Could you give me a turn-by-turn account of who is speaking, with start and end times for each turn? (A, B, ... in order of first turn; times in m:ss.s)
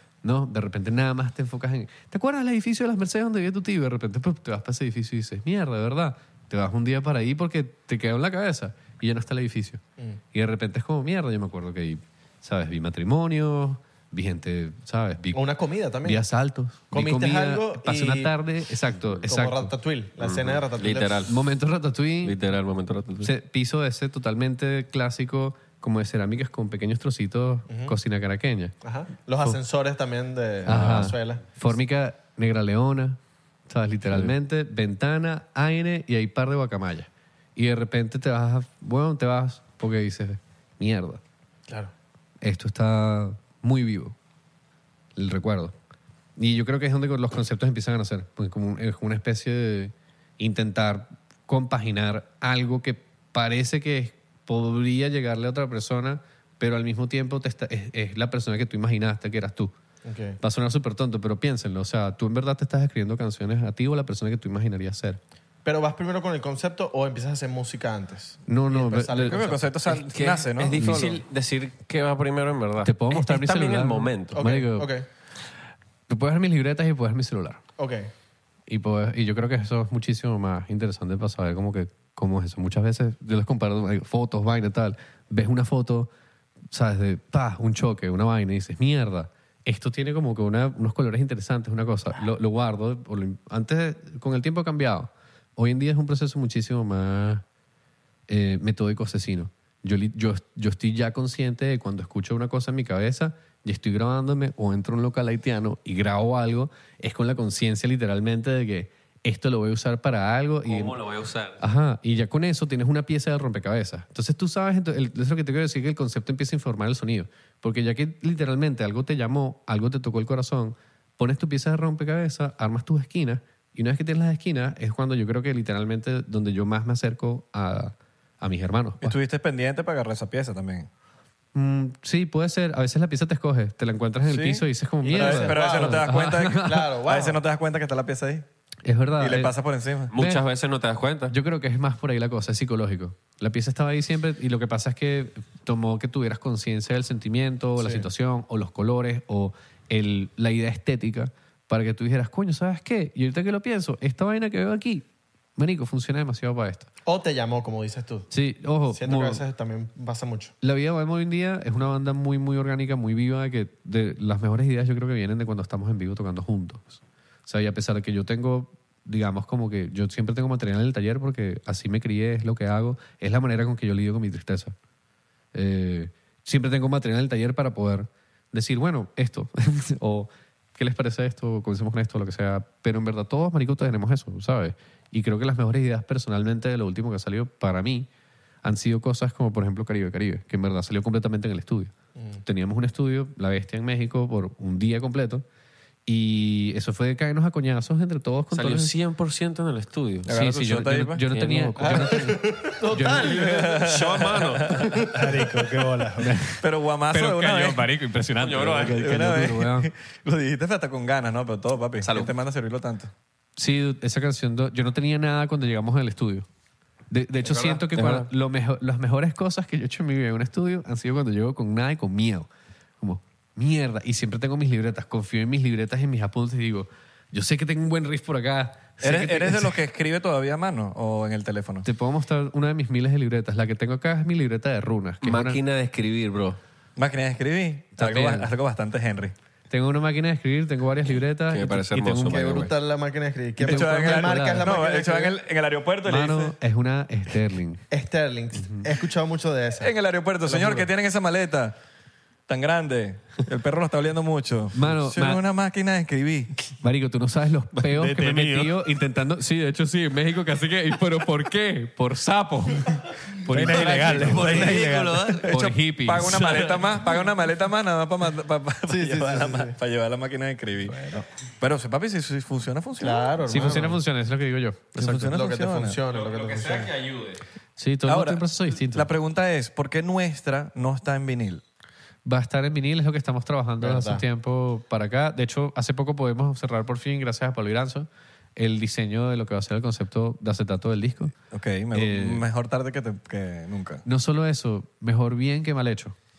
0:00.2-0:09.8 A
0:10.3-0:15.5 A
0:15.3-0:16.2 B
0:16.0-0:19.7 A
0:16.9-0:18.3 B
0:19.3-0:21.3 B
0:20.2-0:21.3 C
0:21.3-0:22.4 A
0:22.2-0:23.3 C
0:23.2-0:28.7 A
0:27.7-0:27.9 B
0:28.8-0:31.5 B
0:30.6-0:33.2 A
0:30.6-0:31.0 C
0:33.7-0:41.2 A
0:42.4-0:44.1 A
0:45.2-0:45.7 A
0:46.4-0:59.7 A
1:00.0-1:00.4 B
1:00.4-1:05.2 A
1:05.6-1:09.6 B
1:08.5-1:09.4 A
1:09.2-1:11.1 D
1:09.9-1:14.4 C
1:10.8-1:11.2 A
1:12.8-1:14.9 A
1:14.3-1:15.0 B
1:16.1-1:17.6 A
1:17.8-1:18.1 B
1:18.7-1:26.1 A
1:26.7-1:37.4 A
1:38.3-1:51.0 A
1:50.6-1:51.6 C
1:51.6-2:09.2 A
2:09.0-2:10.9 D
2:11.5-2:16.9 A
2:14.2-2:18.4 D
2:15.1-2:17.4 B
2:18.8-2:19.5 A
2:19.2-2:20.1 D
2:20.1-2:21.3 C
2:20.1-2:20.4 A
2:21.3-2:36.9 A
2:27.8-2:28.0 B
2:37.0-2:38.3 B
2:38.3-2:39.4 A
2:38.9-2:40.5 B
2:40.6-2:54.7 A
2:55.5-3:08.1 A
3:08.6-3:15.4 A
3:12.2-3:12.4 B
3:16.0-3:18.9 A
3:18.5-3:20.3 C
3:20.2-3:21.2 D
3:20.3-3:23.3 A
3:21.3-3:22.3 C
3:21.8-3:23.9 B
3:23.2-3:24.9 C
3:23.2-3:25.0 D
3:25.1-3:26.3 E
3:26.2-3:29.9 A
3:26.6-3:27.9 D
3:28.4-3:29.3 C
3:28.7-3:33.1 D
3:32.0-3:32.3 C
3:33.6-3:36.4 A
3:37.1-3:42.5 A
3:37.4-3:38.3 C
3:43.0-3:49.8 A
3:49.0-3:51.8 D
3:51.8-3:55.6 A
3:55.2-3:56.6 C
3:57.0-3:59.3 D
3:58.0-3:58.5 A
3:59.7-4:02.7 A
4:01.5-4:02.7 C
4:02.2-4:05.4 B
4:03.6-4:04.7 A
4:03.6-4:06.6 D
4:06.0-4:07.8 A
4:07.9-4:09.9 B
4:08.6-4:08.8 A
4:09.8-4:11.8 D
4:10.4-4:10.9 B
4:12.5-4:16.5 D
4:14.7-4:15.4 A
4:16.8-4:24.7 A
4:17.8-4:18.6 D
4:23.5-4:31.0 D
4:23.5-4:25.3 E
4:23.8-4:25.5 C
4:25.5-4:26.8 A
4:28.9-4:29.7 B
4:30.9-4:31.2 E
4:31.6-4:33.8 D
4:33.0-4:34.0 B
4:33.5-4:35.3 A
4:34.9-4:36.0 D
4:35.3-4:36.9 B
4:36.1-4:37.4 C
4:37.8-4:39.1 A
4:38.0-4:41.6 D
4:42.2-4:51.3 A
4:43.8-4:44.2 B
4:51.5-4:54.0 D
4:51.9-4:52.4 A
4:54.0-4:56.1 A